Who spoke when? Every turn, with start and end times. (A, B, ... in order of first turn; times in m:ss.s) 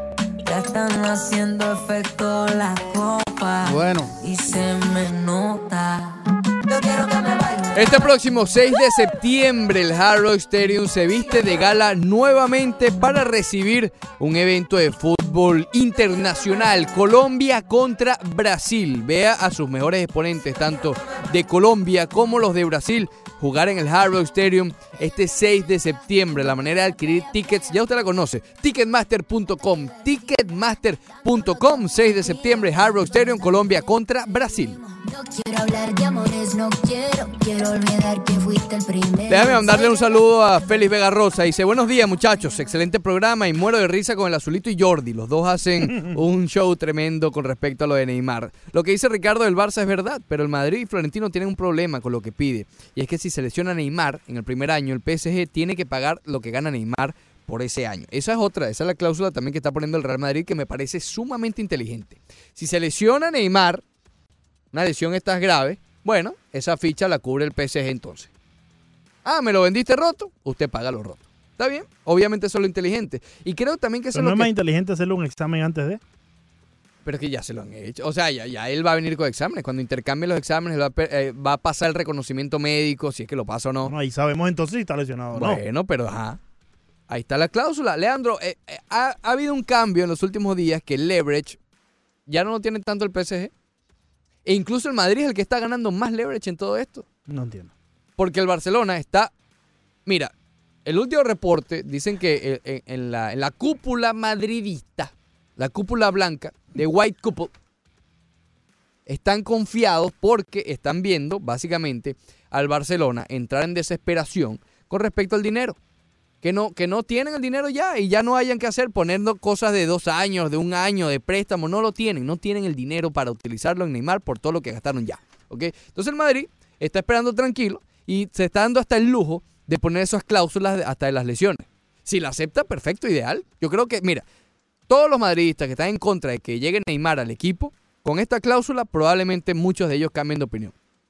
0:00.4-0:08.0 A
0:07.7-0:34.8 B
0:31.1-0:33.6 C
0:34.7-0:40.3 C
0:39.3-1:03.8 B
0:45.9-0:46.2 D
1:04.7-1:08.3 B
1:09.2-1:14.5 B
1:14.1-1:16.0 D
1:17.0-1:23.9 B
1:23.8-1:25.6 D
1:25.3-1:26.4 B
1:27.1-1:31.6 B
1:32.3-1:33.5 B
1:34.4-1:37.0 B
1:37.3-1:37.7 D
1:38.2-1:39.3 B
1:40.0-1:40.3 B
1:40.8-1:47.5 B
1:49.1-1:55.8 B
1:56.4-2:14.2 B
2:14.9-2:20.7 B